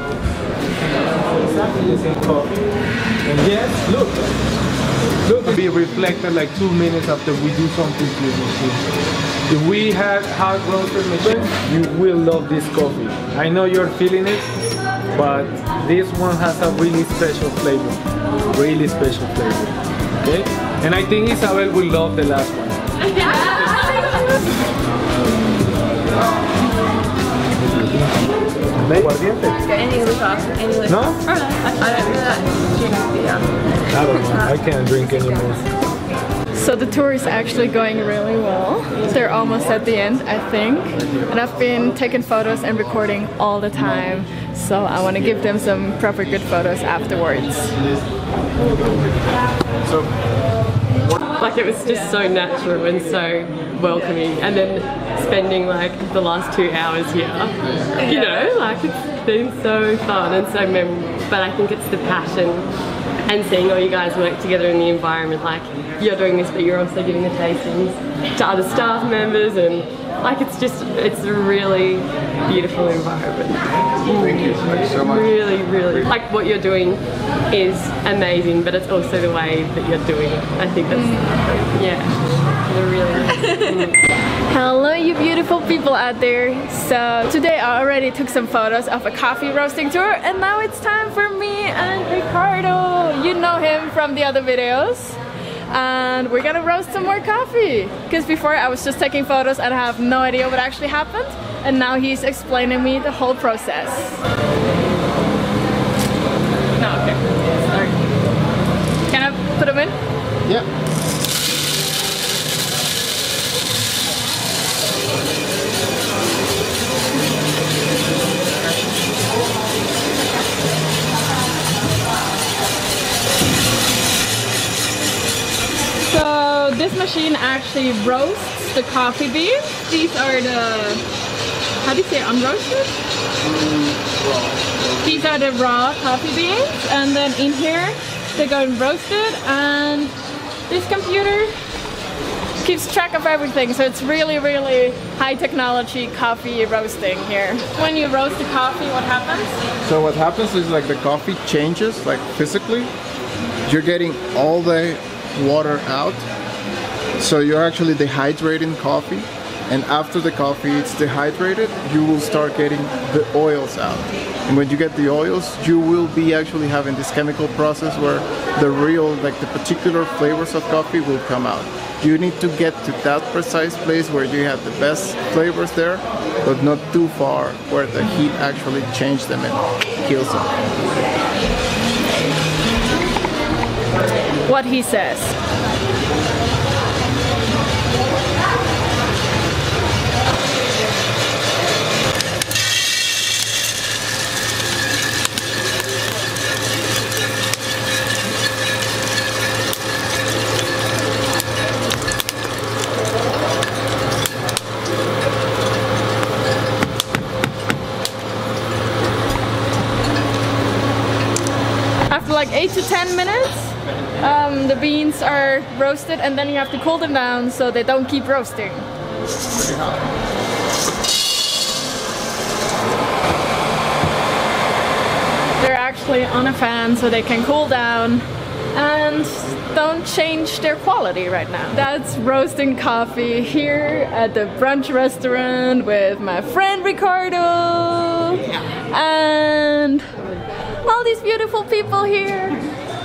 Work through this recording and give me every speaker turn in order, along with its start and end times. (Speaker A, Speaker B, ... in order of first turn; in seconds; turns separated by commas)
Speaker A: 1.1-2.7, Speaker A: 3.2-4.4, Speaker A: 5.2-8.8, Speaker A: 9.5-14.6, Speaker A: 15.1-23.9, Speaker A: 27.6-29.8, Speaker B: 29.8-30.9, Speaker A: 30.9-31.4, Speaker B: 31.4-33.4, Speaker C: 32.0-32.3, Speaker A: 33.9-35.7, Speaker D: 36.5-47.7, Speaker C: 51.3-62.7, Speaker C: 63.2-84.0, Speaker E: 74.1-75.3, Speaker D: 80.9-81.6, Speaker D: 83.4-83.7, Speaker D: 84.5-95.2, Speaker D: 95.7-104.2, Speaker D: 106.8-108.0, Speaker D: 109.1-109.9, Speaker D: 126.0-131.0, Speaker D: 131.8-132.9, Speaker E: 133.6-134.2, Speaker D: 135.0-140.2, Speaker D: 140.7-141.5, Speaker D: 142.6-149.5, Speaker E: 149.8-152.9, Speaker E: 153.7-156.3, Speaker E: 157.2-180.6, Speaker D: 184.5-185.4, Speaker D: 212.1-218.9, Speaker D: 225.6-240.1, Speaker D: 240.8-242.6